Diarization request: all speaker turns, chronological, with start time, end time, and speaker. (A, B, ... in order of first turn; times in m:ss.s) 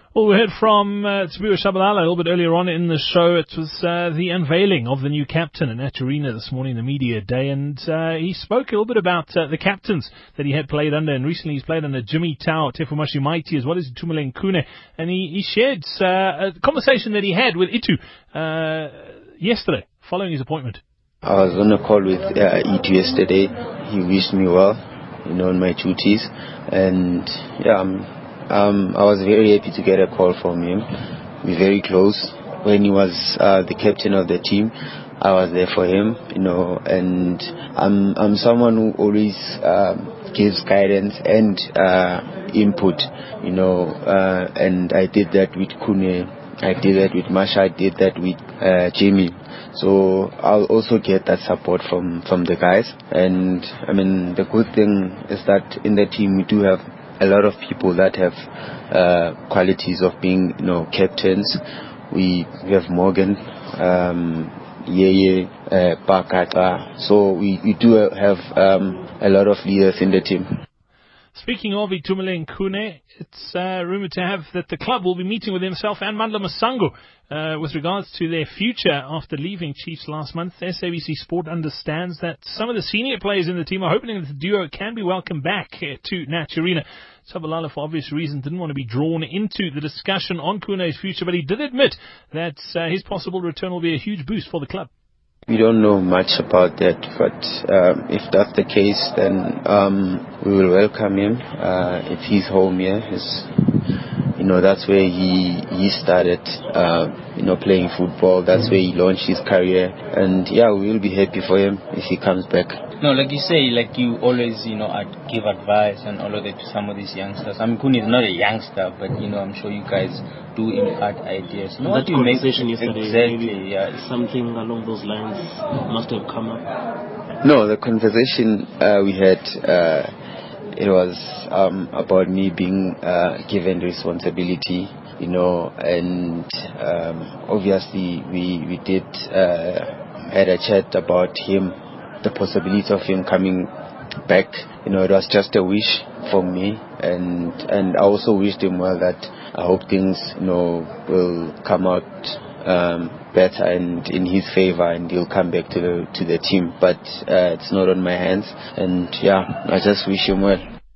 0:00.1-0:20.8 A
0:21.2-0:30.9 B
0:31.4-1:10.6 B
1:11.3-1:34.9 A
1:35.5-1:43.5 B
1:44.4-1:52.8 B
1:53.0-2:04.0 C
2:01.8-2:06.6 D
2:07.4-2:10.1 B
2:10.7-2:23.7 B
2:24.3-2:40.6 B